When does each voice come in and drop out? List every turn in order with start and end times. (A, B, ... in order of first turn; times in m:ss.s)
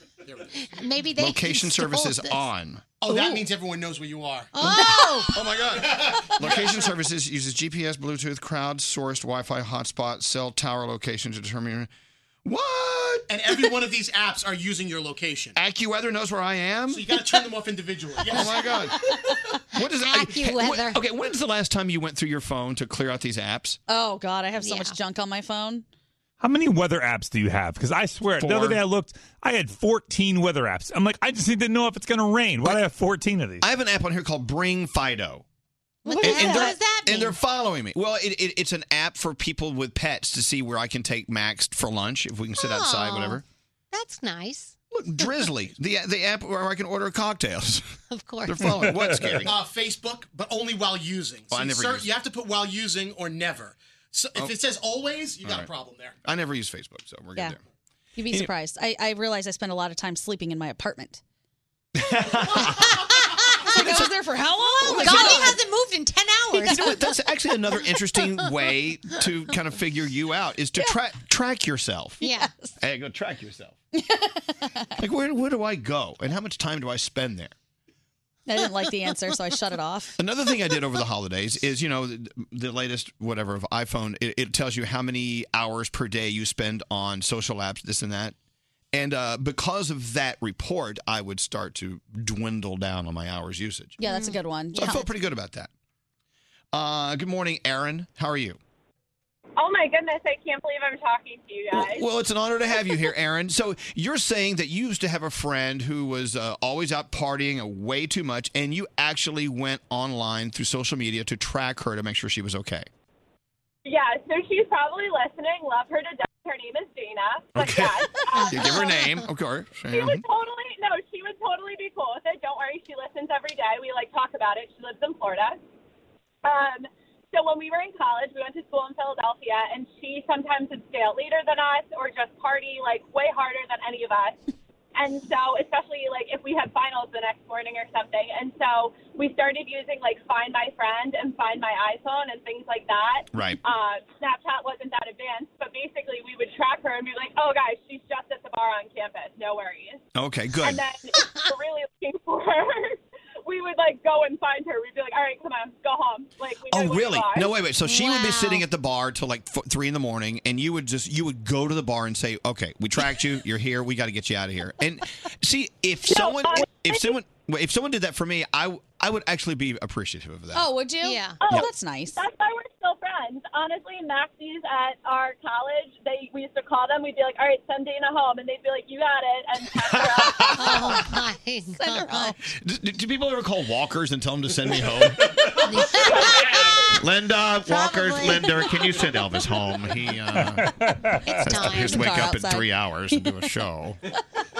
0:00.2-0:00.8 A
0:00.5-0:02.4 B
0:01.2-0:03.2 C
0:03.0-0:04.6 A
0:04.5-0:05.4 B
0:04.6-0:11.9 C
0:05.7-0:06.8 A
0:12.4-0:13.3 C
0:13.3-0:15.6 A
0:15.6-0:17.1 C
0:16.9-0:18.9 A
0:18.2-0:19.2 C
0:19.7-0:23.8 C
0:19.8-0:21.0 B
0:23.9-0:25.8 D
0:24.6-0:25.0 B
0:26.4-0:33.6 E
0:28.4-0:28.8 C
0:33.6-0:35.4 C
0:36.0-0:37.4 B
0:36.1-0:36.7 D
0:36.2-0:43.4 C
0:42.6-0:45.3 B
0:44.9-0:47.8 C
0:48.1-0:48.7 B
0:48.4-0:49.5 C
0:48.9-0:49.4 E
0:49.4-0:56.2 A
0:51.5-0:52.1 C
0:56.2-0:57.6 C
0:58.2-1:01.2 D
1:02.0-1:03.0 C
1:03.7-1:04.1 C
1:03.7-1:05.6 D
1:04.8-1:05.6 C
1:04.8-1:07.1 B
1:06.6-1:12.2 C
1:08.1-1:08.4 B
1:12.2-1:12.5 B
1:12.2-1:12.7 D
1:12.8-1:13.8 C
1:14.0-1:14.9 D
1:15.0-1:17.5 C
1:18.5-1:20.2 D
1:20.2-1:28.3 C
1:28.9-1:34.0 C
1:34.0-1:35.0 D
1:34.0-1:35.0 B
1:34.7-1:35.7 C
1:36.7-1:38.6 C
1:39.6-1:42.0 F
1:41.7-1:52.9 C
1:53.8-1:59.0 F
1:57.5-2:00.2 C
1:58.4-1:59.2 B
1:59.9-2:05.6 F
2:06.4-2:14.4 F
2:15.0-2:30.0 F
2:23.3-2:23.6 C
2:30.1-2:30.8 C
2:30.6-2:37.5 F
2:36.7-2:50.7 C
2:37.8-2:38.6 B
2:46.1-2:47.1 F
2:50.5-2:52.2 D
2:51.0-2:51.4 B
2:52.2-3:00.6 F
2:59.9-3:01.0 C
3:00.4-3:02.4 B
3:01.8-3:02.3 D
3:02.6-3:10.7 C
3:05.6-3:06.8 B
3:07.7-3:09.0 B
3:10.4-3:11.4 E
3:11.2-3:12.2 B
3:11.3-3:14.0 C
3:11.6-3:13.2 D